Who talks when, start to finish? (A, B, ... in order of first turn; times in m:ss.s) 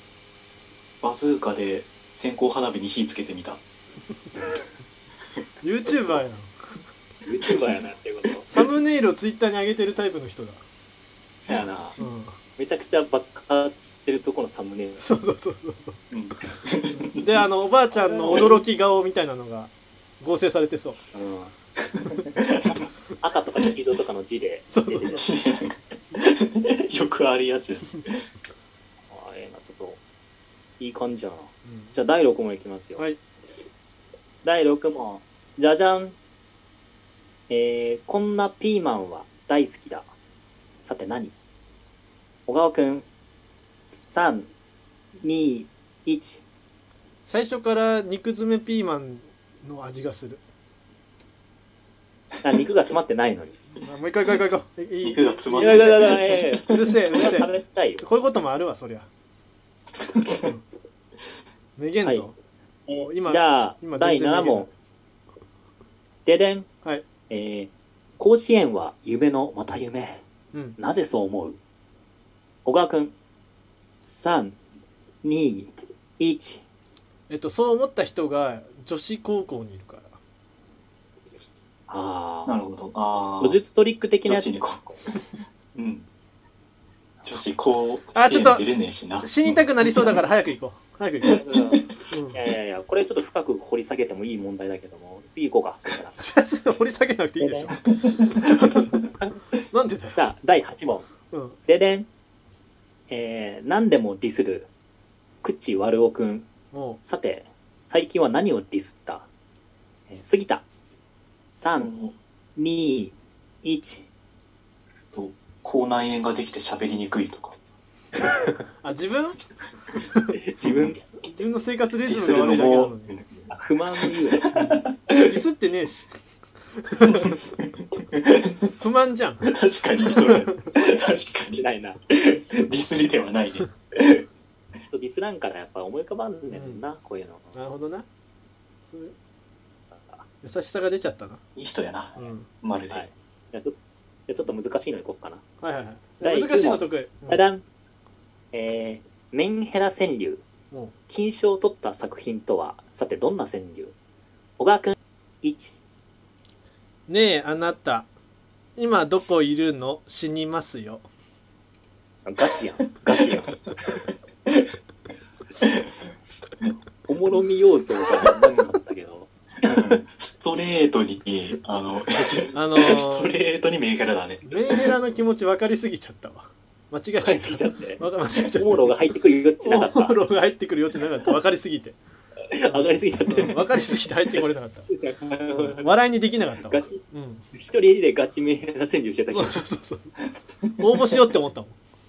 0:01.0-0:03.6 A
0:05.6-0:06.5 B
0:07.2-0:08.5 C
0:08.5-0:10.6 B
0:11.5-0:12.0 C
0:12.0-0:12.3 B
0:12.6-0:15.1 C
0:15.0-0:16.0 B
0:16.1-0:17.4 A
0:17.1-0:21.0 B
0:17.9-0:18.6 C
0:21.1-0:21.5 C
0:21.8-0:22.8 A
0:23.2-0:25.3 C
0:24.7-0:25.2 B
0:25.1-0:28.2 A
0:29.1-0:30.0 C
0:30.8-0:33.0 C
0:31.6-0:31.9 B
0:34.4-0:36.2 C
0:37.5-0:40.1 C
0:40.8-0:41.3 C
0:42.5-0:43.1 C
0:44.0-0:44.5 C
0:45.2-0:46.4 C
0:47.2-0:50.4 B
0:52.4-0:53.6 C
0:53.8-0:59.1 B
0:55.0-0:57.1 A
0:55.5-0:58.0 C
1:01.8-1:02.3 B
1:02.0-1:02.3 C
1:02.9-1:04.7 C
1:03.0-1:04.7 B
1:06.2-1:06.7 C
1:07.3-1:10.2 C
1:10.8-1:11.6 C
1:12.6-1:13.2 C
1:14.0-1:14.6 C
1:15.2-1:16.6 C
1:17.3-1:20.1 B
1:21.9-1:22.6 C
1:22.4-1:23.6 A
1:23.4-1:25.0 C
1:24.2-1:25.2 A
1:25.7-1:26.1 A
1:27.2-1:30.2 A
1:28.1-1:28.7 B
1:29.2-1:31.4 B
1:31.3-1:31.8 A
1:31.4-1:31.8 C
1:32.1-1:32.4 B
1:32.3-1:36.1 C
1:36.2-1:37.8 B
1:37.4-1:37.7 C
1:37.8-1:39.0 A
1:38.3-1:39.0 B
1:39.7-1:40.2 B
1:40.2-1:41.1 C
1:41.3-1:41.6 B
1:41.6-1:42.1 C
1:43.1-1:44.7 C
1:45.4-1:46.5 C
1:46.7-1:47.0 B
1:47.0-1:49.3 C
1:50.1-1:50.6 C
1:51.5-1:51.9 C
1:51.7-1:52.1 A
1:52.6-1:54.1 C
1:55.1-1:57.6 A
1:58.8-1:59.4 B
2:00.3-2:01.0 C
2:00.6-2:01.0 A
2:01.2-2:03.1 B
2:02.0-2:03.3 A
2:03.5-2:04.4 C
2:04.0-2:05.4 A
2:04.5-2:06.1 B
2:06.9-2:07.2 B
2:07.0-2:07.6 A
2:08.1-2:08.5 A
2:08.8-2:09.5 B
2:09.4-2:14.2 A
2:11.5-2:12.0 C
2:14.9-2:17.6 C
2:16.5-2:16.8 B
2:17.5-2:18.0 B
2:18.9-2:19.1 B
2:19.9-2:20.2 C
2:20.4-2:21.4 B
2:21.6-2:23.1 A
2:22.2-2:22.5 B
2:22.9-2:25.4 C
2:25.6-2:27.4 B
2:26.2-2:27.6 C
2:28.5-2:30.4 C
2:31.1-2:33.9 C
2:34.6-2:35.8 C
2:37.1-2:38.1 B
2:38.8-2:41.0 B
2:42.2-2:43.6 C
2:47.1-2:49.8 C
2:49.6-2:54.9 A
2:52.5-2:53.3 B
2:54.4-2:58.9 B
2:57.2-2:58.0 C
2:58.5-3:00.2 C
2:59.6-3:02.0 B
3:02.5-3:04.0 C
3:02.6-3:04.9 B
3:04.9-3:05.9 C
3:05.5-3:07.4 B
3:06.6-3:07.0 C
3:07.5-3:09.6 C
3:09.3-3:10.1 B
3:10.8-3:11.8 B